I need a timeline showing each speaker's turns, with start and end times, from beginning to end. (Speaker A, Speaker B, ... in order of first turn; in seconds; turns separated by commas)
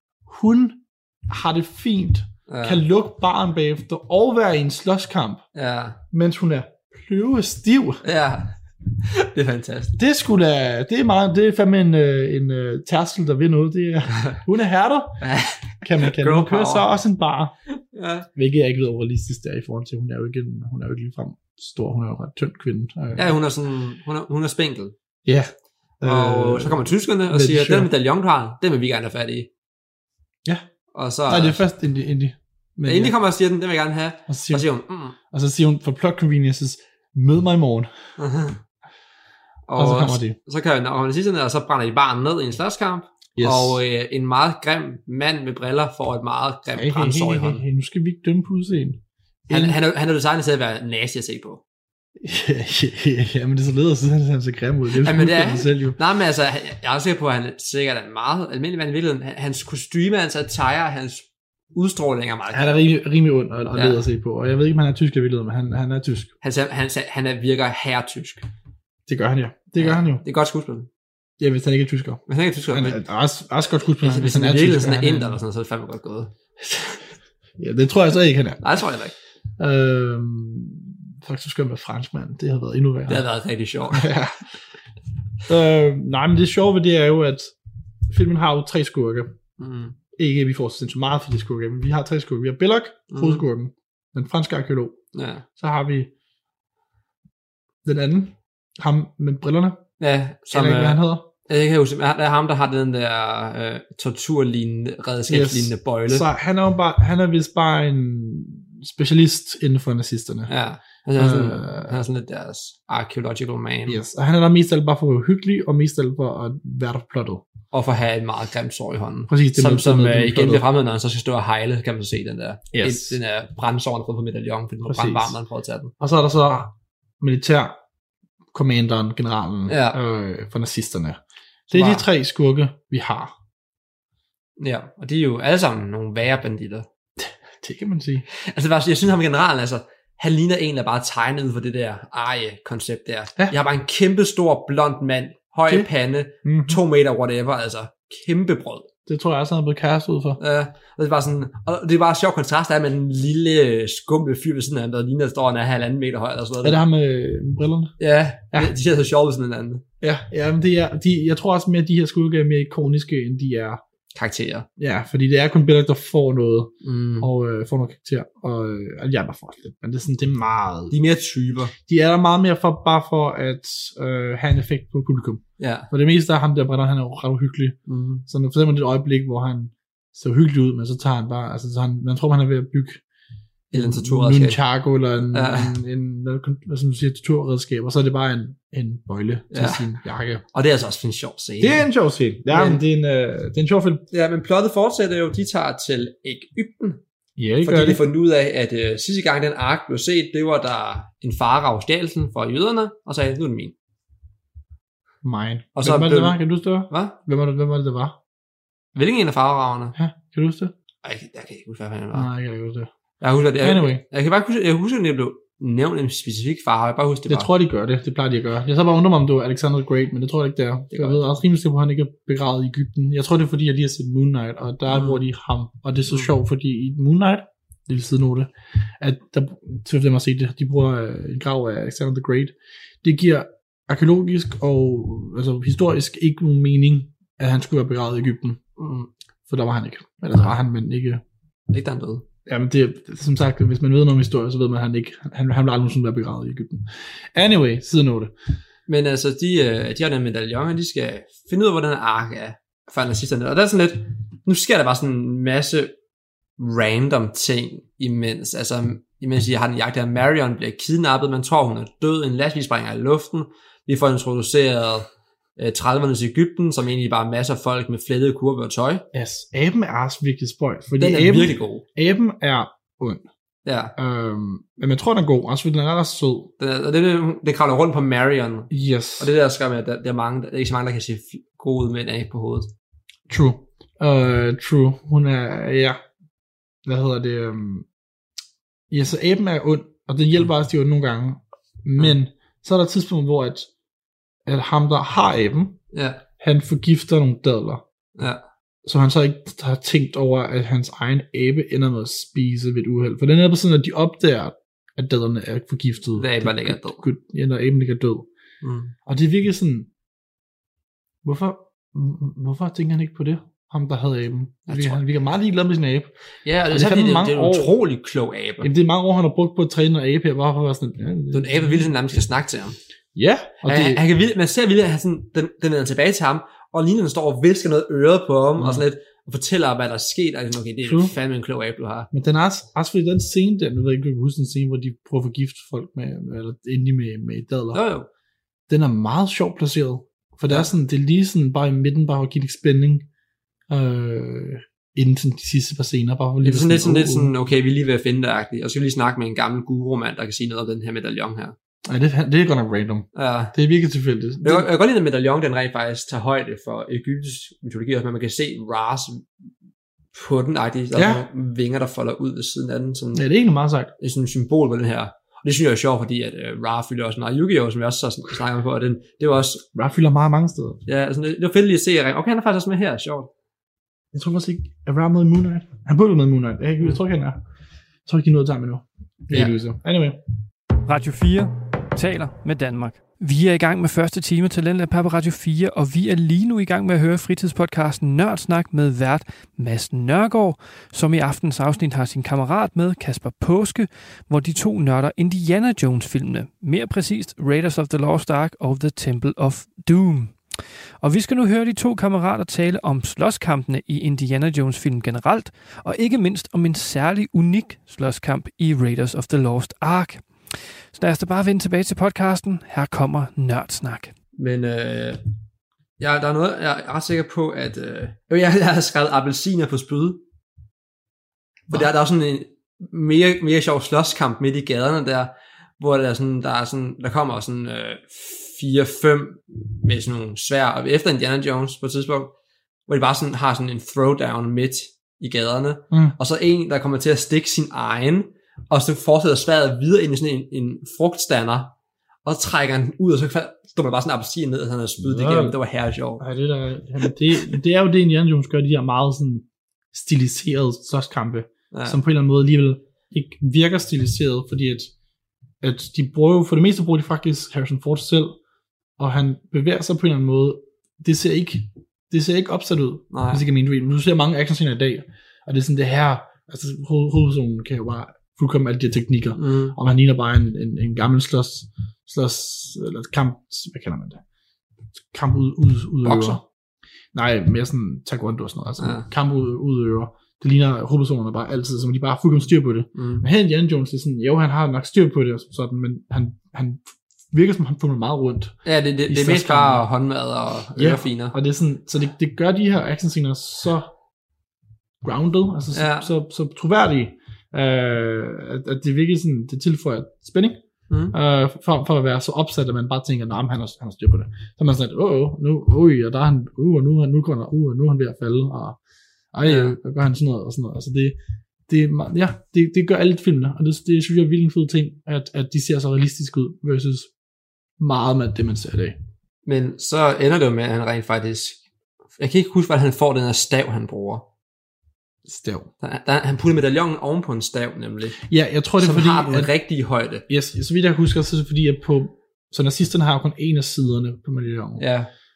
Speaker A: 0.3-5.4, Speaker B: 2.5-2.8, Speaker B: 5.5-6.0, Speaker A: 6.1-8.0, Speaker B: 8.0-10.0, Speaker A: 10.0-15.2, Speaker B: 15.2-16.9, Speaker A: 15.8-17.6, Speaker B: 17.9-18.3, Speaker A: 18.4-23.3, Speaker B: 23.2-24.9, Speaker A: 25.2-27.9, Speaker B: 26.0-29.5, Speaker B: 30.9-31.6, Speaker A: 31.3-33.1, Speaker B: 32.9-35.2, Speaker A: 34.3-34.7, Speaker A: 35.3-37.9, Speaker B: 38.2-38.6, Speaker B: 39.7-47.6, Speaker A: 39.8-40.4, Speaker A: 43.4-43.8, Speaker A: 46.8-49.8, Speaker B: 49.5-51.6, Speaker A: 52.2-56.0, Speaker B: 55.0-62.8, Speaker A: 62.5-66.3, Speaker B: 63.7-64.0, Speaker B: 66.4-68.5, Speaker A: 69.1-70.2, Speaker B: 69.8-70.9, Speaker A: 71.4-75.4, Speaker B: 72.3-73.0, Speaker B: 74.0-77.0, Speaker A: 77.6-78.7, Speaker B: 78.6-79.2, Speaker A: 79.6-83.3, Speaker B: 83.1-84.1, Speaker A: 83.9-84.4, Speaker A: 85.5-87.5, Speaker A: 88.1-89.4, Speaker B: 89.6-90.0, Speaker A: 90.2-95.0, Speaker B: 93.1-93.4, Speaker B: 95.1-95.5, Speaker A: 95.6-96.1, Speaker A: 97.8-99.8, Speaker B: 100.0-106.3, Speaker A: 100.5-101.3, Speaker A: 105.3-110.5, Speaker B: 110.5-114.0, Speaker A: 111.2-112.0, Speaker A: 113.9-117.5, Speaker B: 117.7-125.9, Speaker A: 119.3-120.7, Speaker A: 122.7-123.2, Speaker A: 124.9-125.4, Speaker A: 126.0-127.8, Speaker A: 128.5-133.3, Speaker B: 129.7-130.0, Speaker B: 131.7-132.1, Speaker B: 134.6-136.9, Speaker A: 137.2-138.3, Speaker B: 138.3-148.9, Speaker A: 146.4-146.8, Speaker A: 149.1-150.4, Speaker B: 150.4-156.8, Speaker A: 156.6-157.9, Speaker B: 158.0-159.8, Speaker A: 160.0-163.8, Speaker B: 164.2-164.7, Speaker A: 164.8-170.9, Speaker B: 166.8-167.3, Speaker B: 170.9-171.7, Speaker A: 171.9-183.0, Speaker B: 175.6-175.9, Speaker B: 177.9-178.2, Speaker B: 183.7-184.6, Speaker A: 183.7-190.4, Speaker B: 185.3-185.8, Speaker B: 189.5-189.9, Speaker B: 190.5-191.9, Speaker A: 191.6-194.0, Speaker B: 192.5-192.8, Speaker B: 194.1-197.0, Speaker A: 197.4-198.0, Speaker B: 197.6-203.8, Speaker A: 205.2-208.2, Speaker B: 205.8-207.2, Speaker B: 208.9-210.0, Speaker A: 210.0-210.7, Speaker B: 211.0-212.3, Speaker A: 212.1-212.9, Speaker B: 213.2-217.5, Speaker A: 213.6-214.0, Speaker A: 217.3-238.6, Speaker B: 220.9-221.2, Speaker B: 224.9-225.2, Speaker B: 238.8-239.1, Speaker A: 239.5-241.2, Speaker B: 241.7-242.2, Speaker A: 242.5-248.3, Speaker B: 248.9-255.9, Speaker B: 256.6-269.1, Speaker A: 269.1-273.2, Speaker B: 271.0-271.8, Speaker B: 273.6-273.9, Speaker A: 274.0-276.5, Speaker B: 276.6-282.7, Speaker A: 278.7-279.3, Speaker A: 283.3-286.0, Speaker A: 286.9-287.9, Speaker A: 288.9-293.7, Speaker A: 294.5-295.8, Speaker B: 295.9-296.2, Speaker A: 296.4-297.8, Speaker B: 298.2-298.4, Speaker A: 298.9-308.3, Speaker B: 306.2-307.0, Speaker B: 308.6-308.9, Speaker A: 309.1-309.9, Speaker A: 311.2-316.1, Speaker B: 314.7-315.0, Speaker B: 316.4-318.7, Speaker A: 316.7-317.8, Speaker A: 318.6-321.9, Speaker B: 321.3-322.8, Speaker A: 323.1-324.0, Speaker B: 323.6-332.1, Speaker A: 328.6-328.8, Speaker A: 330.8-331.1, Speaker A: 332.1-337.8, Speaker B: 337.7-338.1, Speaker A: 338.7-343.1, Speaker A: 343.7-347.3, Speaker B: 346.4-351.6, Speaker A: 351.9-354.7, Speaker B: 353.1-353.5, Speaker B: 354.4-359.3, Speaker B: 360.1-363.2, Speaker A: 360.9-361.2, Speaker A: 363.1-363.9, Speaker B: 364.0-369.6, Speaker A: 369.8-370.8, Speaker B: 370.9-373.3, Speaker A: 374.1-377.4, Speaker A: 378.1-380.2, Speaker C: 380.9-400.4, Speaker C: 401.0-414.1, Speaker B: 414.4-415.2, Speaker B: 416.0-420.2, Speaker B: 421.7-432.3, Speaker B: 432.9-441.7, Speaker A: 435.9-436.2, Speaker B: 442.2-446.2, Speaker A: 445.0-445.6, Speaker A: 446.2-454.9, Speaker B: 451.7-452.0, Speaker A: 455.6-458.4, Speaker A: 459.0-474.2, Speaker B: 463.1-463.4, Speaker B: 469.4-469.8, Speaker A: 475.1-476.4, Speaker B: 476.0-476.4, Speaker A: 477.1-489.9, Speaker B: 478.8-479.1, Speaker B: 482.9-483.3, Speaker B: 488.6-491.4, Speaker A: 490.8-493.9, Speaker A: 495.0-500.6, Speaker B: 495.7-496.1, Speaker B: 500.9-501.1, Speaker A: 501.1-508.8, Speaker A: 509.3-517.1, Speaker B: 509.5-509.8, Speaker A: 517.8-519.0, Speaker B: 519.5-521.6, Speaker B: 522.2-524.3, Speaker A: 525.3-525.7, Speaker B: 525.8-528.2, Speaker A: 528.2-529.5, Speaker B: 528.8-530.2, Speaker A: 530.3-534.8, Speaker B: 534.8-535.1